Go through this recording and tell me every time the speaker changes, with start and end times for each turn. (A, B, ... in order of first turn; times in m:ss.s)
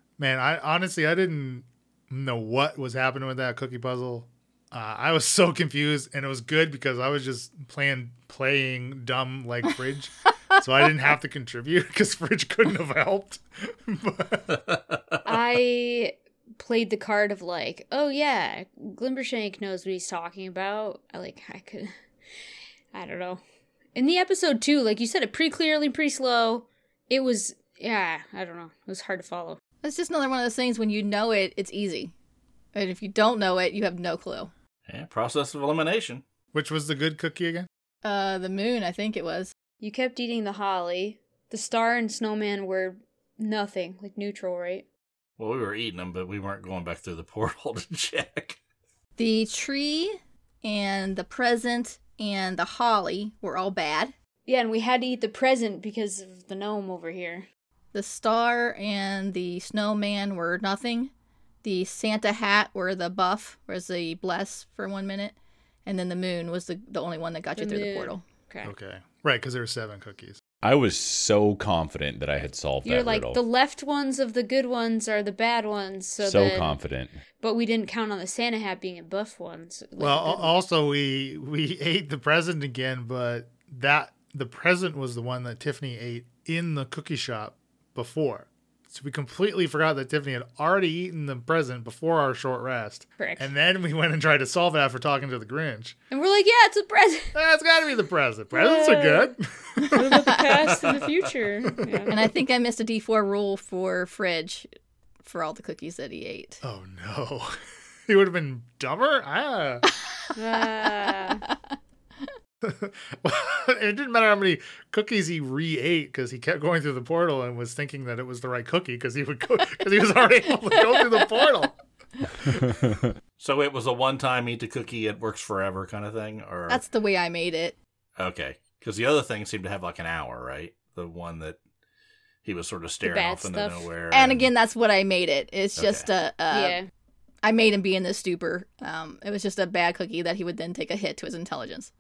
0:00.2-0:14.6 A
0:15.2-0:21.9 B
0:22.9-0:23.4 B
0:23.9-0:29.6 B
0:29.8-0:32.1 C
0:32.7-0:34.5 C
0:34.9-0:36.2 D
0:36.5-0:37.7 A
0:38.0-0:39.5 C
0:39.8-0:44.9 B
0:45.4-0:48.6 D
0:49.2-0:54.1 C
0:54.5-0:57.5 B
0:57.9-1:01.1 C
1:01.6-1:05.4 C
1:05.9-1:08.2 C
1:07.6-1:08.7 B
1:08.6-1:10.4 A
1:10.6-1:13.4 E
1:12.8-1:16.8 B
1:16.2-1:17.2 E
1:17.4-1:20.5 B
1:20.0-1:36.0 A
1:33.2-1:33.5 B
1:36.1-1:37.4 B
1:37.4-1:40.8 A
1:38.5-1:39.3 B
1:39.9-1:42.2 B
1:41.7-1:42.0 A
1:42.1-1:44.7 C
1:45.2-1:46.6 C
1:46.6-1:47.6 A
1:48.1-1:49.9 A
1:50.4-1:51.5 B
1:52.6-2:01.8 A
2:03.4-2:06.8 D
2:06.7-2:07.8 C
2:08.2-2:11.6 D
2:12.4-2:14.5 D
2:13.0-2:13.9 B
2:14.1-2:16.8 C
2:15.8-2:16.1 D
2:16.5-2:16.9 B
2:17.4-2:21.9 C